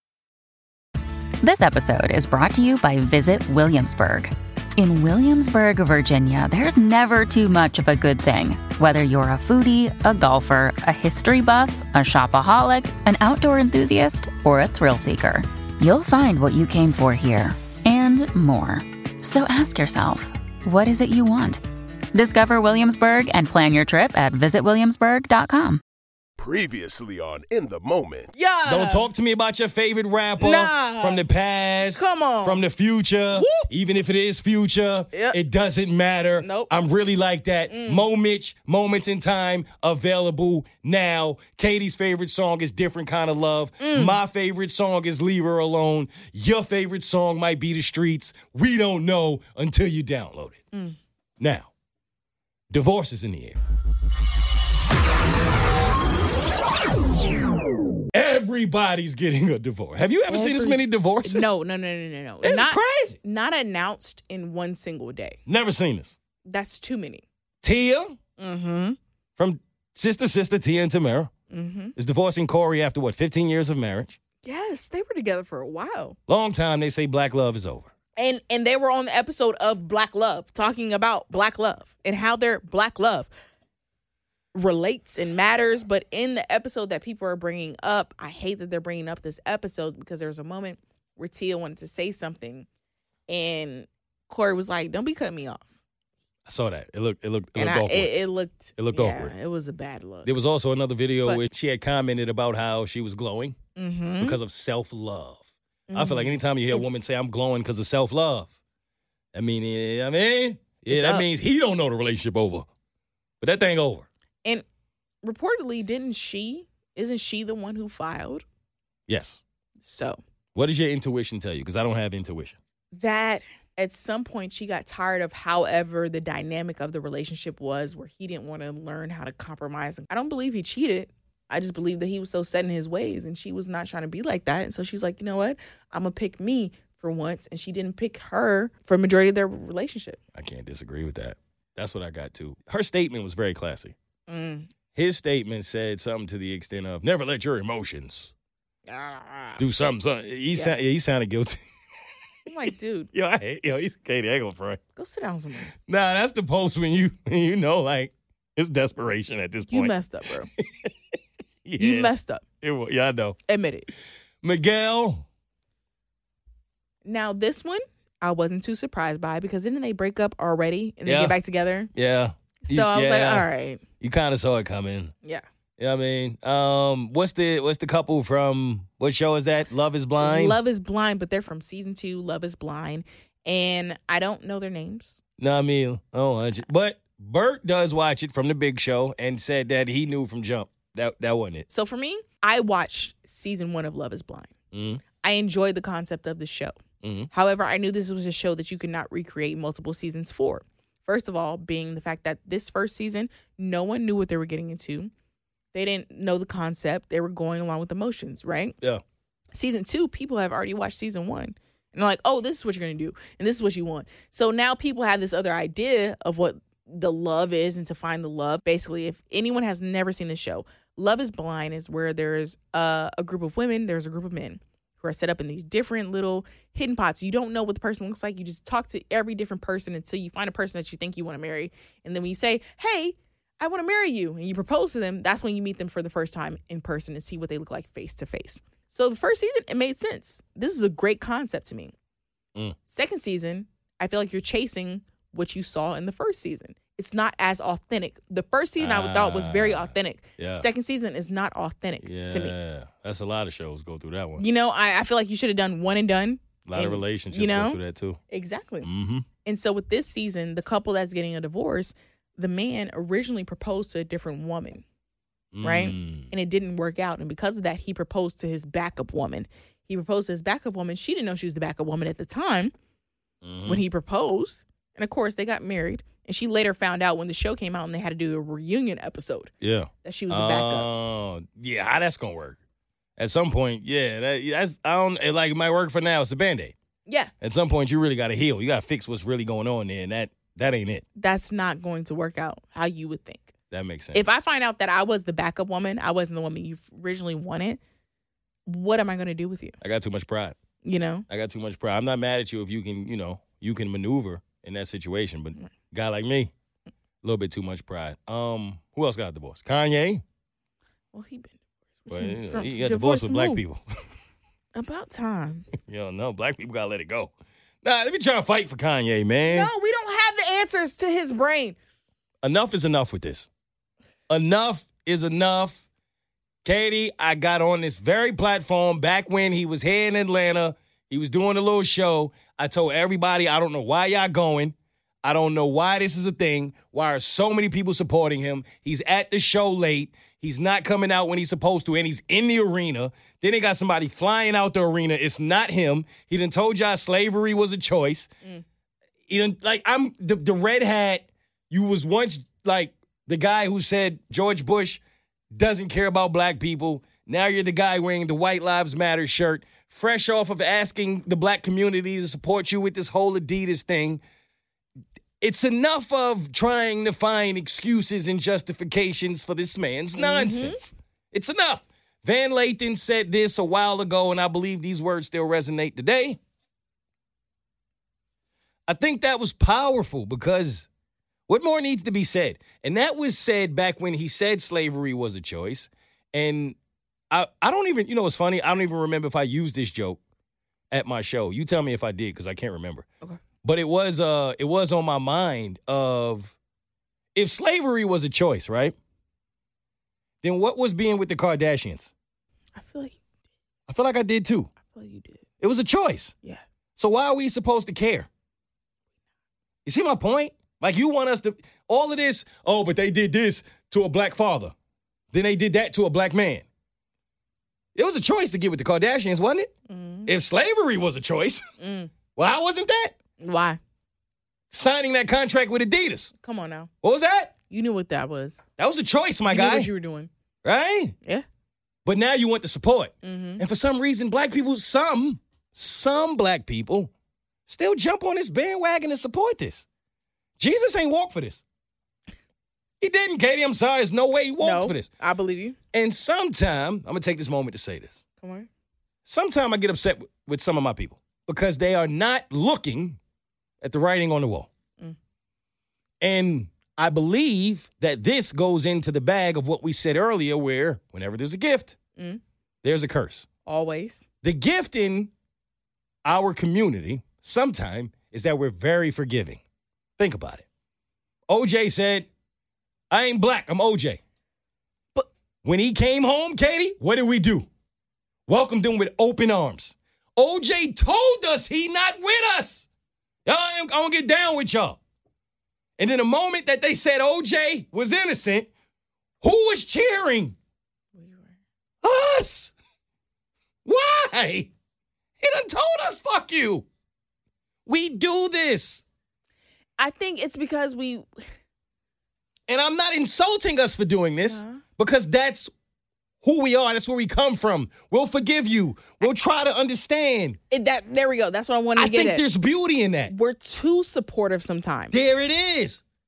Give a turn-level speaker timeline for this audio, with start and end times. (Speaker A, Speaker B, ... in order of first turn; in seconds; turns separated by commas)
Speaker A: 1.4-21.6, Speaker A: 22.1-25.8, Speaker B: 26.4-28.3, Speaker C: 28.3-29.1, Speaker D: 28.7-50.6, Speaker C: 30.4-31.2, Speaker C: 31.9-32.6, Speaker C: 33.3-33.7, Speaker C: 35.1-35.4, Speaker C: 36.4-36.7, Speaker C: 37.7-38.0, Speaker C: 43.8-44.2, Speaker C: 50.7-51.0, Speaker D: 51.4-51.7, Speaker D: 52.7-53.6, Speaker D: 58.1-61.5, Speaker C: 60.3-65.4, Speaker D: 62.4-63.2, Speaker D: 65.5-66.2, Speaker C: 66.5-67.2, Speaker D: 67.6-68.2, Speaker C: 68.4-69.0, Speaker D: 69.4-71.3, Speaker C: 71.5-72.0, Speaker D: 72.0-74.2, Speaker C: 74.4-76.2, Speaker D: 76.3-77.9, Speaker C: 78.2-83.3, Speaker C: 84.5-92.7, Speaker C: 93.3-95.7, Speaker D: 96.5-98.1, Speaker C: 97.6-100.3, Speaker D: 98.8-99.3, Speaker D: 100.2-103.6, Speaker C: 103.8-104.4, Speaker D: 104.2-108.5, Speaker C: 105.9-107.0, Speaker D: 109.3-112.7, Speaker C: 110.9-111.3, Speaker D: 113.4-114.1, Speaker C: 115.2-118.5, Speaker D: 119.1-119.4, Speaker C: 119.8-120.2, Speaker D: 120.5-122.6, Speaker C: 122.9-140.2, Speaker D: 140.3-143.9, Speaker C: 144.3-144.7, Speaker D: 144.9-148.3, Speaker C: 148.9-149.6, Speaker D: 149.6-151.6, Speaker C: 152.5-153.1, Speaker D: 153.1-154.8, Speaker C: 155.0-155.7, Speaker D: 155.8-159.9, Speaker C: 159.7-160.5, Speaker D: 160.6-160.9, Speaker D: 161.7-163.4, Speaker C: 161.8-162.4, Speaker C: 163.5-163.9, Speaker D: 164.4-165.3, Speaker C: 167.1-171.9, Speaker D: 171.1-171.4, Speaker D: 171.9-173.5, Speaker C: 172.6-173.8, Speaker D: 174.0-175.1, Speaker D: 175.8-180.6, Speaker C: 180.2-185.2, Speaker D: 185.4-191.7, Speaker C: 191.7-194.5, Speaker D: 194.7-195.0, Speaker C: 195.2-196.8, Speaker D: 197.0-197.3, Speaker C: 197.3-205.1, Speaker C: 205.7-208.8, Speaker C: 209.5-241.9, Speaker C: 242.9-252.5, Speaker D: 248.8-250.7, Speaker D: 252.0-254.4, Speaker C: 254.4-258.9, Speaker D: 256.6-258.2, Speaker D: 258.8-259.3, Speaker C: 259.4-264.8, Speaker D: 265.5-266.3, Speaker C: 265.6-272.7, Speaker D: 273.4-273.8, Speaker C: 273.7-279.5, Speaker D: 279.6-282.6, Speaker C: 280.0-280.9, Speaker D: 283.2-286.7, Speaker C: 287.1-287.3, Speaker D: 287.4-291.0, Speaker C: 291.2-293.5, Speaker D: 293.7-294.3, Speaker C: 294.1-297.8, Speaker C: 298.7-299.8, Speaker D: 299.8-300.6, Speaker C: 300.8-301.2, Speaker D: 301.3-306.5, Speaker D: 307.2-310.2, Speaker C: 311.1-313.6, Speaker D: 312.1-313.9, Speaker C: 314.8-315.7, Speaker D: 315.8-319.7, Speaker C: 319.5-321.8, Speaker D: 322.4-323.5, Speaker D: 324.3-325.9, Speaker D: 326.6-348.3, Speaker D: 349.3-364.2, Speaker D: 365.4-376.4, Speaker C: 370.2-370.8, Speaker D: 378.9-380.9, Speaker D: 381.5-386.8, Speaker D: 387.3-390.2, Speaker D: 390.9-393.1, Speaker D: 393.6-396.6, Speaker D: 397.4-399.0, Speaker D: 400.4-402.1, Speaker C: 402.8-403.2, Speaker D: 403.9-404.7, Speaker C: 404.8-405.4, Speaker D: 405.6-406.4, Speaker D: 407.0-408.3, Speaker D: 409.9-414.7, Speaker D: 415.3-416.6, Speaker D: 417.9-419.7, Speaker C: 419.9-420.3, Speaker D: 420.3-421.6, Speaker C: 421.8-422.1, Speaker D: 422.4-423.1, Speaker C: 423.4-423.8, Speaker D: 424.7-426.3, Speaker C: 426.4-426.9, Speaker D: 427.0-427.5, Speaker C: 427.7-428.6, Speaker D: 428.8-429.9, Speaker C: 429.5-430.3, Speaker D: 430.6-431.1, Speaker D: 432.1-437.1, Speaker C: 433.2-433.6, Speaker D: 437.7-439.9, Speaker D: 440.6-441.6, Speaker D: 443.0-445.1, Speaker C: 444.6-445.8, Speaker D: 445.9-448.2, Speaker C: 448.4-448.7, Speaker D: 449.3-453.2, Speaker D: 453.8-454.7, Speaker D: 456.2-462.0, Speaker C: 462.2-462.4, Speaker D: 462.8-463.5, Speaker C: 463.7-464.2, Speaker D: 464.4-465.3, Speaker D: 466.2-469.6, Speaker D: 470.2-470.6, Speaker D: 471.5-472.3, Speaker D: 473.1-474.2, Speaker D: 475.6-477.7, Speaker D: 478.5-482.9, Speaker D: 483.4-485.0, Speaker D: 486.0-488.7, Speaker D: 489.4-490.6, Speaker C: 491.1-491.6, Speaker D: 492.0-492.7, Speaker D: 493.9-494.7, Speaker D: 495.4-496.9, Speaker D: 497.9-499.0, Speaker C: 500.0-501.4, Speaker D: 502.7-505.7, Speaker C: 504.5-504.8, Speaker D: 506.4-510.6, Speaker C: 510.7-512.4, Speaker D: 512.0-513.3, Speaker C: 513.3-515.3, Speaker D: 515.1-516.0